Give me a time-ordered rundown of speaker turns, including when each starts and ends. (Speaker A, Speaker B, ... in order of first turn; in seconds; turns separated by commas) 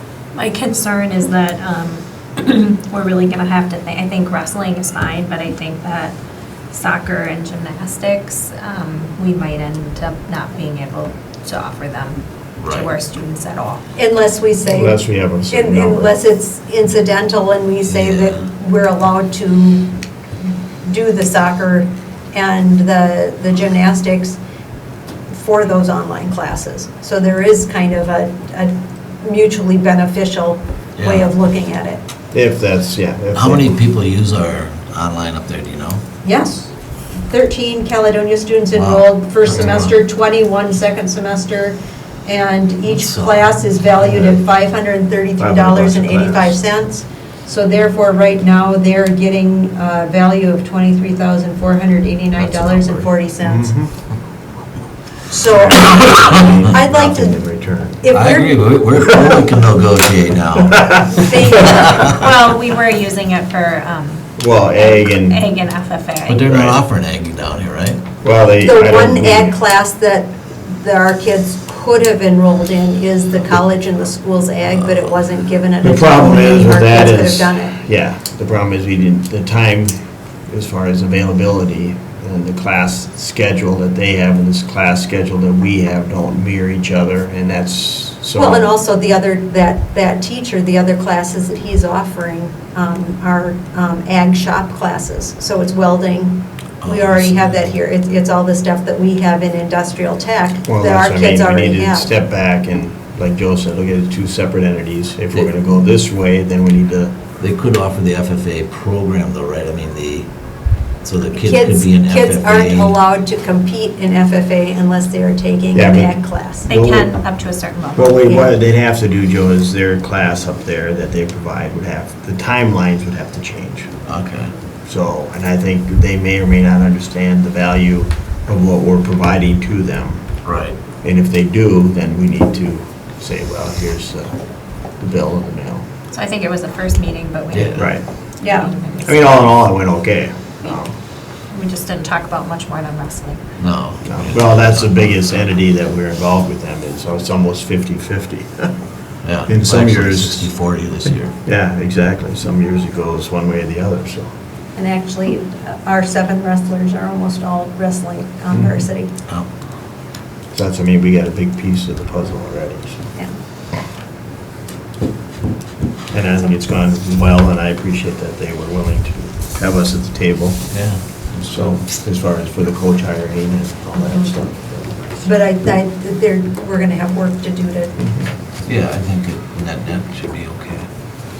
Speaker A: 0.3-6.1, Speaker A: 6.7-13.8, Speaker B: 12.6-12.9, Speaker C: 13.9-20.0, Speaker D: 14.7-16.2, Speaker B: 17.9-18.4, Speaker C: 20.8-24.4, Speaker C: 25.3-32.0, Speaker B: 31.0-31.3, Speaker D: 32.3-33.8, Speaker B: 33.3-36.0, Speaker C: 36.2-36.7, Speaker C: 37.3-53.7, Speaker B: 38.7-39.9, Speaker B: 42.9-43.6, Speaker D: 45.4-46.6, Speaker D: 53.4-53.9, Speaker C: 55.3-57.4, Speaker D: 55.4-58.1, Speaker C: 58.0-58.7, Speaker B: 58.1-62.1, Speaker D: 60.7-61.8, Speaker C: 61.2-62.1, Speaker A: 61.6-66.6, Speaker D: 64.4-65.4, Speaker B: 66.3-68.0, Speaker D: 66.5-66.8, Speaker D: 68.2-69.5, Speaker C: 68.6-77.8, Speaker D: 75.8-88.7, Speaker C: 88.3-102.1, Speaker B: 96.8-97.4, Speaker D: 100.7-107.1, Speaker B: 107.4-110.3, Speaker B: 111.0-113.0, Speaker C: 111.3-116.7, Speaker D: 115.7-117.2, Speaker A: 116.6-118.5, Speaker D: 117.9-123.9, Speaker B: 124.1-124.5, Speaker D: 124.8-130.4, Speaker B: 130.4-130.8, Speaker D: 131.0-134.4, Speaker D: 135.0-135.8, Speaker A: 136.1-139.5, Speaker D: 137.7-138.1, Speaker C: 138.4-138.7, Speaker D: 139.0-140.9, Speaker A: 141.5-143.4, Speaker B: 143.6-145.1, Speaker D: 144.1-148.7, Speaker B: 149.2-151.3, Speaker D: 149.4-150.5, Speaker D: 151.1-154.3, Speaker C: 154.8-159.1, Speaker D: 158.5-158.9, Speaker D: 160.5-163.1, Speaker D: 166.1-170.7, Speaker B: 170.7-171.5, Speaker D: 171.3-175.2, Speaker C: 174.0-174.3, Speaker C: 175.2-178.0, Speaker D: 178.0-178.3, Speaker B: 178.6-180.9